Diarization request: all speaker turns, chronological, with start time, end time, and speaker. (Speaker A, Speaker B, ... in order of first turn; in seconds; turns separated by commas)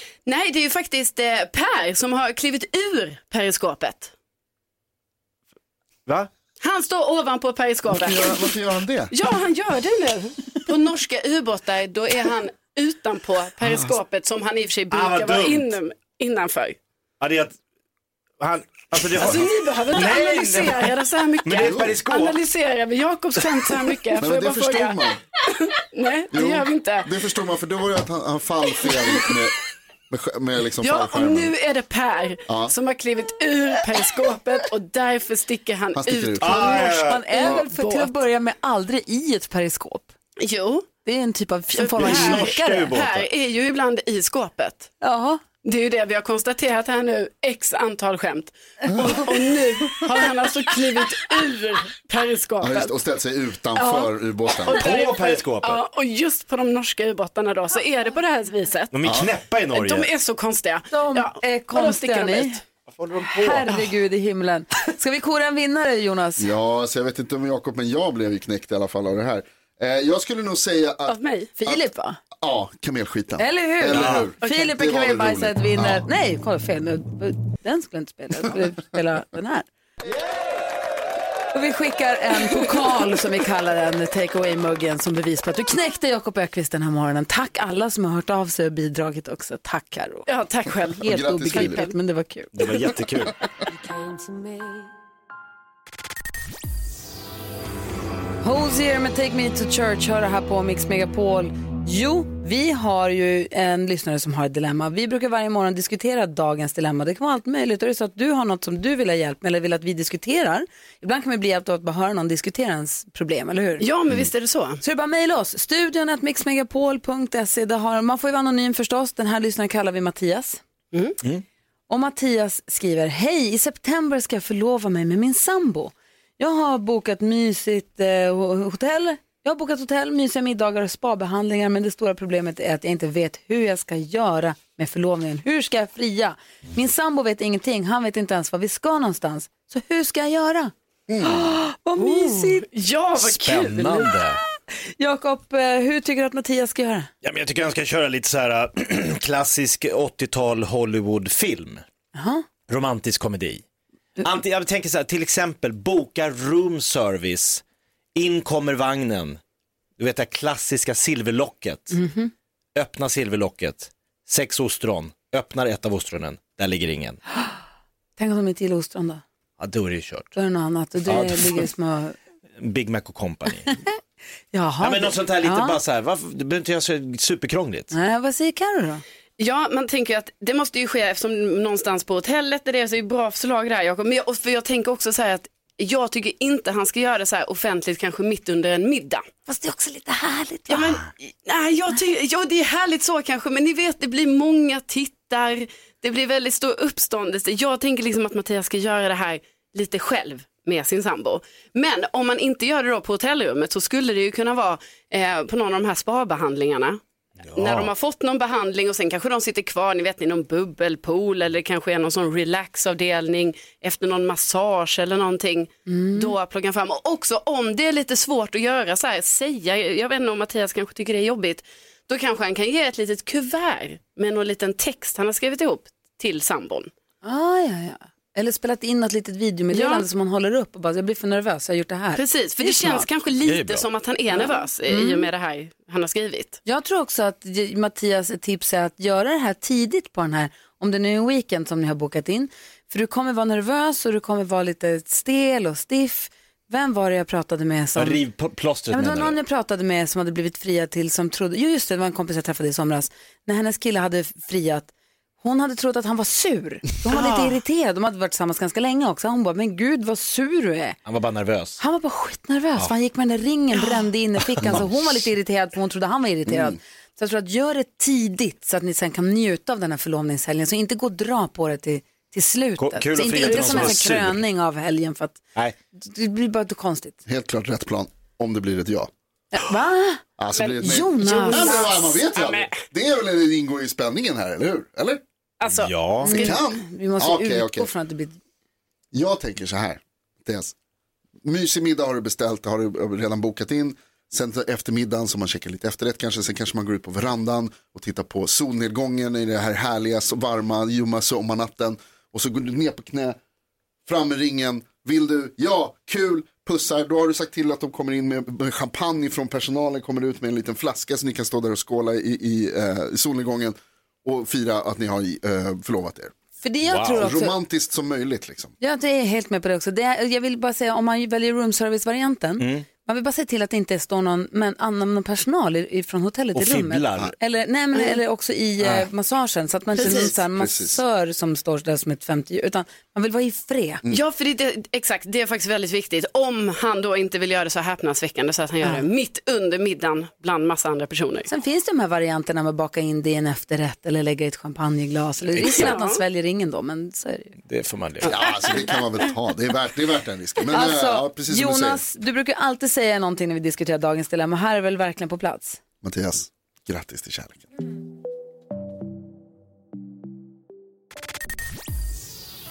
Speaker A: 0.3-4.1, Speaker A: 6.6-8.4, Speaker B: 7.9-9.1, Speaker A: 9.1-16.8, Speaker C: 14.9-15.7, Speaker C: 17.2-17.6, Speaker C: 18.4-22.4, Speaker A: 19.1-27.1, Speaker B: 21.6-22.0, Speaker B: 24.2-25.2, Speaker B: 26.3-29.6, Speaker A: 28.9-29.3, Speaker B: 30.1-31.5, Speaker A: 30.8-38.2, Speaker B: 32.5-32.7, Speaker B: 36.0-36.8, Speaker C: 36.4-37.5, Speaker D: 36.8-40.1, Speaker A: 40.4-40.9, Speaker D: 41.0-42.9, Speaker A: 41.8-44.9, Speaker C: 42.0-43.3, Speaker D: 45.0-45.4, Speaker A: 45.6-53.0, Speaker B: 52.6-54.9, Speaker A: 54.6-59.1, Speaker C: 54.7-55.8, Speaker C: 58.9-60.1, Speaker A: 59.7-62.6, Speaker D: 60.9-62.6, Speaker C: 62.9-63.7, Speaker D: 63.2-66.5, Speaker B: 66.4-71.8, Speaker A: 71.1-71.5, Speaker D: 71.6-72.2, Speaker B: 72.4-76.0, Speaker D: 73.4-79.7, Speaker C: 73.9-74.3, Speaker D: 81.5-90.3, Speaker A: 90.3-91.9, Speaker D: 90.9-92.7, Speaker B: 91.0-91.9, Speaker C: 92.5-93.3, Speaker D: 98.4-113.9, Speaker A: 113.8-114.8, Speaker D: 114.8-120.6, Speaker D: 121.9-142.7, Speaker A: 142.0-144.1, Speaker C: 143.2-144.4, Speaker D: 145.0-147.1, Speaker C: 147.2-151.8, Speaker D: 152.2-152.4, Speaker C: 152.7-153.6, Speaker C: 154.2-157.6, Speaker C: 158.2-159.4, Speaker C: 160.0-162.0, Speaker D: 161.9-162.3, Speaker C: 162.8-167.2, Speaker D: 168.2-169.2, Speaker C: 169.6-170.3, Speaker D: 170.3-172.2, Speaker C: 171.1-171.7, Speaker C: 172.6-173.7, Speaker D: 174.5-175.8, Speaker C: 174.8-177.9, Speaker D: 177.9-179.0, Speaker A: 179.4-189.3, Speaker D: 189.5-190.9, Speaker A: 190.7-207.0, Speaker C: 207.4-207.9, Speaker A: 207.6-226.9, Speaker D: 215.9-216.3, Speaker D: 227.2-233.1, Speaker A: 229.7-230.1, Speaker A: 232.2-236.6, Speaker C: 233.4-233.9, Speaker D: 234.9-235.3, Speaker D: 236.7-248.2, Speaker C: 248.0-249.4, Speaker D: 248.9-254.9, Speaker D: 255.4-261.0, Speaker A: 257.1-257.5, Speaker C: 261.1-261.8, Speaker D: 261.8-275.4, Speaker B: 266.5-266.7, Speaker C: 272.8-274.4, Speaker D: 276.0-277.2, Speaker B: 277.3-279.1, Speaker D: 279.5-280.2, Speaker B: 280.4-285.2, Speaker A: 280.6-282.8, Speaker D: 280.8-281.9, Speaker A: 285.6-286.6, Speaker C: 285.7-286.4, Speaker D: 286.2-288.4, Speaker B: 286.3-287.9, Speaker B: 289.1-290.7, Speaker B: 291.4-303.4, Speaker B: 304.1-316.3, Speaker D: 316.6-317.6, Speaker C: 316.9-317.2, Speaker B: 317.1-318.7, Speaker D: 318.8-334.0, Speaker C: 322.6-322.9, Speaker C: 326.6-327.3, Speaker A: 330.0-330.3, Speaker B: 330.0-331.0, Speaker A: 334.1-341.5, Speaker D: 341.5-347.6, Speaker A: 345.6-346.2, Speaker C: 347.7-348.4, Speaker B: 348.2-352.0, Speaker D: 350.7-355.8, Speaker B: 356.0-357.6